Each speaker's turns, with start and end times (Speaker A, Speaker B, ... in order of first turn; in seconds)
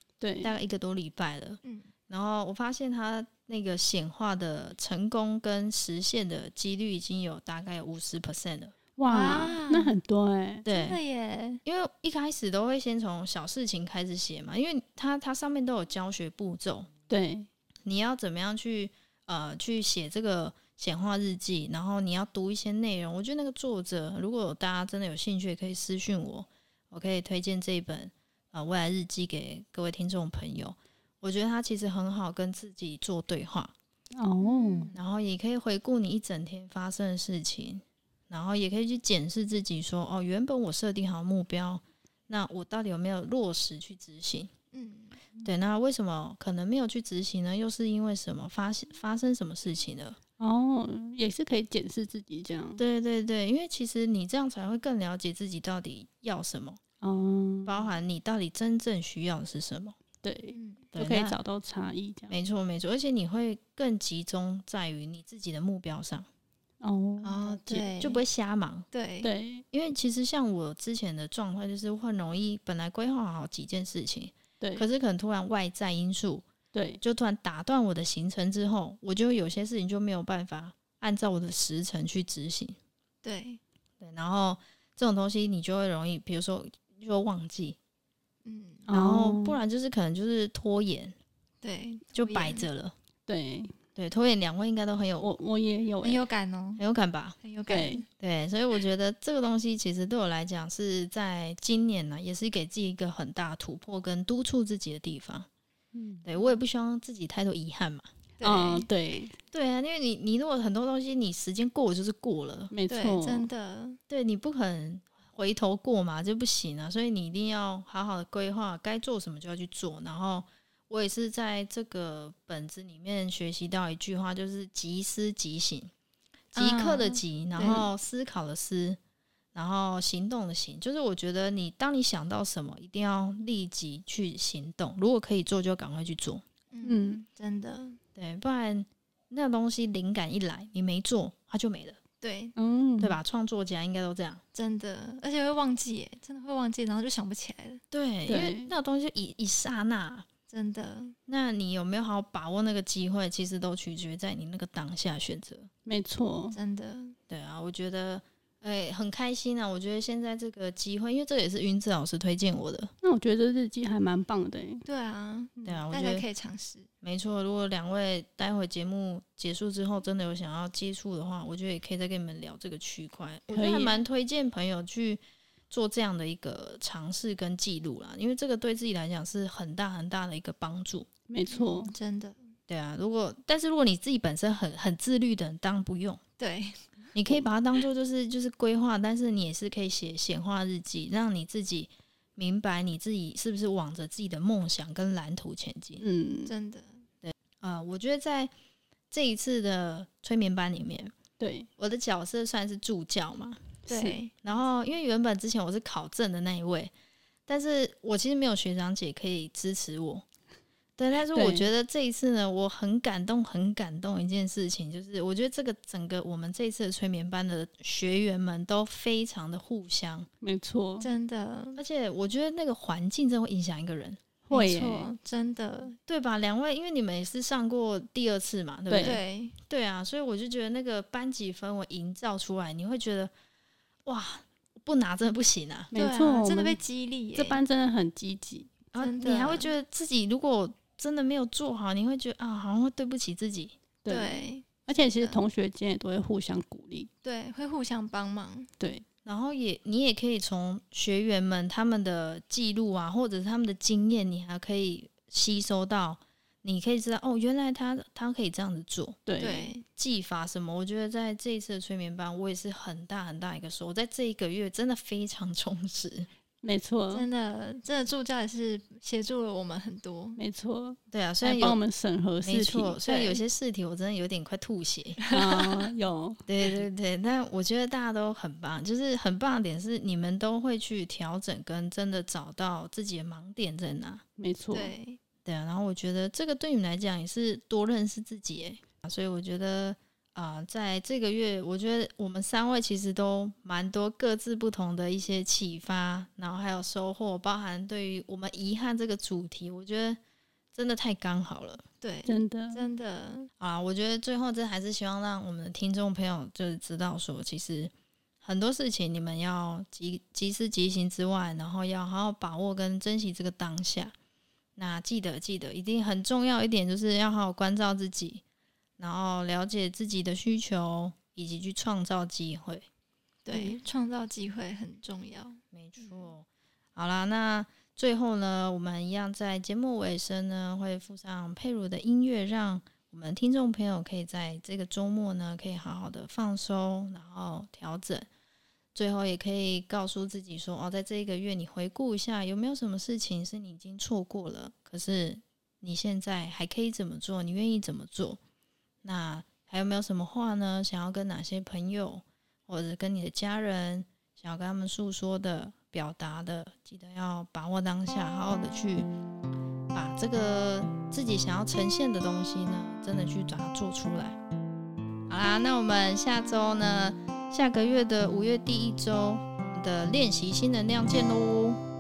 Speaker A: 0.2-0.5, 9.0-10.6, 17.1-17.5, 34.1-34.9, 50.4-52.8, 57.0-57.7, 60.2-62.3, 66.8-67.8, 69.2-69.6, 74.6-74.8, 76.7-77.0, 88.9-89.6, 93.3-93.7, 95.2-96.2, 97.7-98.0, 105.9-106.2, 108.4-109.4, 112.7-113.5, 136.8-137.2, 142.6-143.2, 148.3-148.7, 155.8-156.6, 163.0-164.8, 173.5-174.0, 181.3-181.9, 196.0-196.5, 201.4-201.7, 203.9-204.2, 211.3-211.7, 220.4-221.1, 224.4-225.1, 228.9-229.2, 235.9-236.8, 237.3-238.7, 244.0-247.1, 248.8-249.0, 259.2-259.7, 266.6-267.3, 270.4-273.0, 275.3-276.4, 284.4-284.9, 302.2-302.8, 323.5-323.8
Speaker B: 0.4-8.7, 10.6-11.0, 11.6-16.9, 17.8-33.7, 34.9-44.5, 45.4-50.2, 52.8-56.8, 57.6-60.0, 60.9-61.4, 62.3-66.3, 67.4-68.9, 69.7-76.4, 77.0-82.8, 84.0-87.8, 88.9-91.1, 92.1-92.9, 94.0-95.3, 96.8-97.4, 98.2-105.5, 106.2-108.1, 109.5-112.7, 114.1-125.9, 126.5-129.0, 129.5-136.4, 138.2-142.0, 143.0-144.4, 147.9-150.2, 151.3-155.7, 157.3-162.9, 165.6-166.2, 167.0-181.1, 182.7-186.2, 187.1-196.0, 197.2-198.5, 199.1-201.1, 201.8-203.8, 204.4-206.9, 207.5-210.2, 211.0-220.3, 221.8-224.2, 226.1-233.3, 234.1-235.9, 238.9-243.8, 249.2-259.2, 259.9-266.3, 271.1-271.8, 272.4-275.2, 276.5-284.2, 285.4-300.2, 300.7-301.8, 303.6-314.1, 314.8-318.4, 319.0-322.9, 325.7-338.3, 338.9-348.4, 349.0-359.1, 359.9-364.4, 365.3-371.8
Speaker C: 1.6-1.9, 9.1-10.0, 10.7-11.6, 34.4-35.0, 44.7-45.2, 60.5-60.9, 67.2-68.2, 68.9-69.3, 83.2-83.6, 88.4-88.9, 91.6-92.7, 96.0-96.8, 97.4-98.0, 108.4-108.9, 112.9-114.0, 126.5-127.8, 136.7-138.0, 142.2-142.5, 144.5-147.8, 150.5-151.2, 156.5-157.2, 164.8-166.9, 181.5-182.4, 186.4-186.9, 196.4-197.0, 203.9-204.3, 221.0-221.8, 224.5-226.0, 229.0-229.6, 235.9-237.6, 239.0-239.7, 244.1-245.4, 247.2-248.7, 259.4-259.8, 267.1-270.4, 273.0-273.4, 275.2-275.9, 284.7-285.2, 302.0-303.5, 323.4-326.3